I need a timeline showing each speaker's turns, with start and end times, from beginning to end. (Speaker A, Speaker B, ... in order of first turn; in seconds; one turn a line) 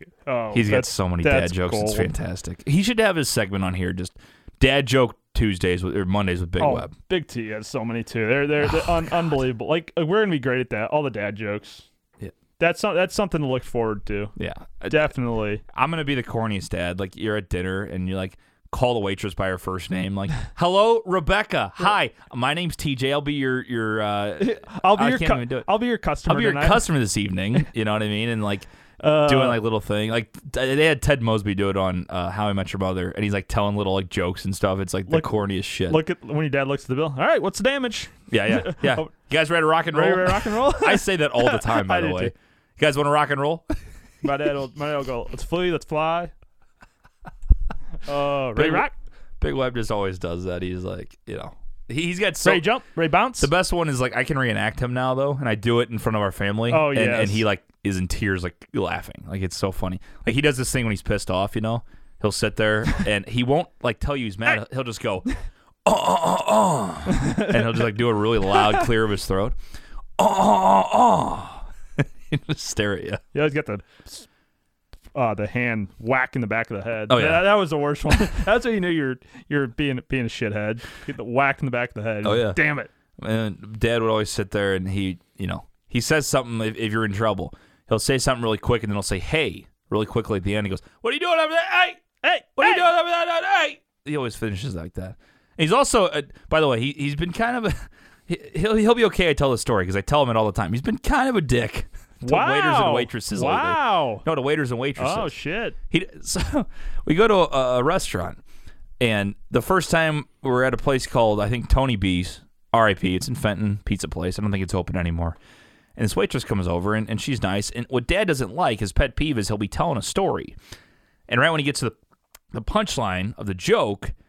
Speaker A: 0.3-2.1
Speaker B: 0.5-6.9
Speaker A: 6.6-11.8
Speaker B: 8.6-9.1
Speaker A: 12.6-14.3
Speaker B: 14.4-15.1
Speaker A: 14.9-15.6
Speaker B: 15.7-25.7
Speaker A: 24.4-26.9
Speaker B: 26.3-28.7
Speaker A: 29.0-29.6
Speaker B: 29.2-36.0
Speaker A: 35.9-39.1
Speaker B: 38.3-43.7
Speaker A: 39.9-42.3
Speaker A: 44.2-46.3
Speaker A: 48.1-48.9
Speaker B: 48.5-48.9
Speaker B: 49.4-52.6
Speaker A: 52.4-53.5
Speaker B: 53.4-65.3
Speaker A: 56.7-57.4
Speaker B: 65.8-69.5
Speaker A: 67.1-67.9
Speaker A: 68.5-68.8
Speaker B: 70.2-73.2
Speaker A: 73.3-74.3
Speaker A: 75.1-82.9
Speaker B: 77.1-77.5
Speaker B: 82.2-82.6
Speaker B: 83.2-92.0
Speaker A: 92.2-92.9
Speaker B: 92.6-105.3
Speaker A: 102.2-104.2
Speaker A: 105.0-105.8
Speaker B: 105.9-108.4
Speaker B: 109.0-115.4
Speaker B: 116.0-120.6
Speaker B: 121.3-122.0
Speaker B: 122.5-124.1